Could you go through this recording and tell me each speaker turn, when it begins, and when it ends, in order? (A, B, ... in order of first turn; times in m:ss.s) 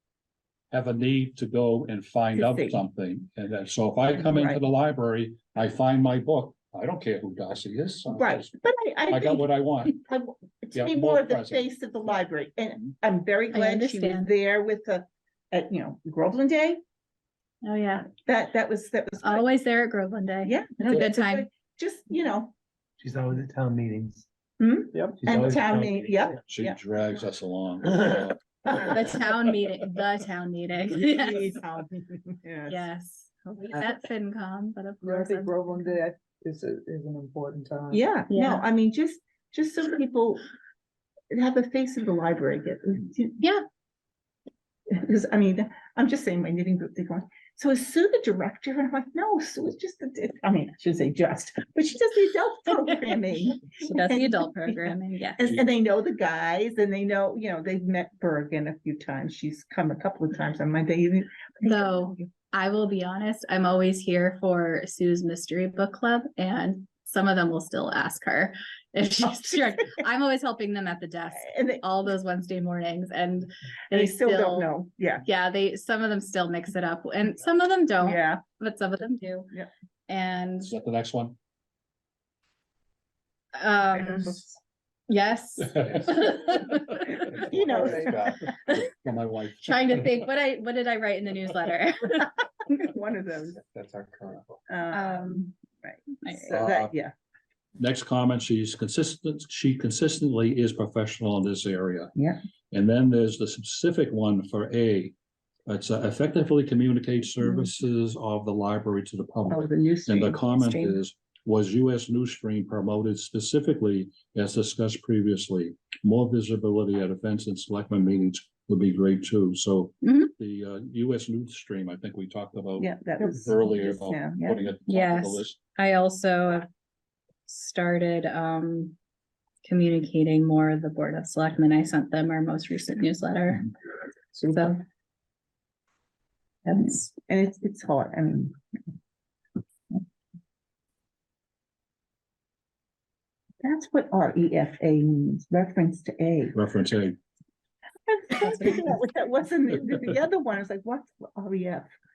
0:00.7-0:08.5 A
0:02.3-0:02.8 B
0:04.2-0:04.6 B
0:08.2-0:16.8 B
0:09.1-0:10.0 A
0:10.8-0:11.7 A
0:13.5-0:14.3 C
0:17.6-0:18.1 C
0:18.1-0:19.5 B
0:19.2-0:21.5 C
0:20.4-0:22.5 B
0:23.0-0:24.3 D
0:24.6-0:26.8 B
0:24.9-0:25.2 E
0:25.1-0:26.4 D
0:26.5-0:28.4 A
0:28.7-0:31.6 C
0:30.9-0:32.9 B
0:32.7-0:36.0 C
0:33.4-0:33.8 B
0:35.0-0:38.0 E
0:37.9-0:40.4 B
0:38.3-0:38.6 C
0:41.3-0:43.4 B
0:44.9-1:02.3 B
0:53.8-0:55.6 C
1:01.6-1:19.5 C
1:11.4-1:11.9 B
1:13.9-1:15.2 B
1:18.0-1:18.4 B
1:20.1-1:20.7 C
1:20.6-1:21.4 A
1:23.6-1:24.4 C
1:24.0-1:24.4 B
1:25.1-1:27.3 C
1:25.8-1:26.1 A
1:27.1-1:30.0 A
1:27.4-1:28.4 B
1:29.6-1:32.4 C
1:32.7-1:33.6 B
1:34.7-1:37.1 B
1:34.9-1:35.5 C
1:36.2-1:36.6 C
1:36.5-1:36.9 A
1:37.8-1:42.1 A
1:42.7-1:45.2 A
1:45.7-2:05.6 A
1:49.5-1:51.0 B
2:00.0-2:00.3 C
2:02.8-2:04.7 B
2:04.9-2:06.7 C
2:07.5-2:09.0 C
2:09.6-2:13.7 C
2:14.4-2:14.8 C
2:16.7-2:18.6 B
2:23.6-2:26.6 B
2:26.5-2:27.2 A
2:28.1-2:31.9 B
2:28.4-2:28.8 C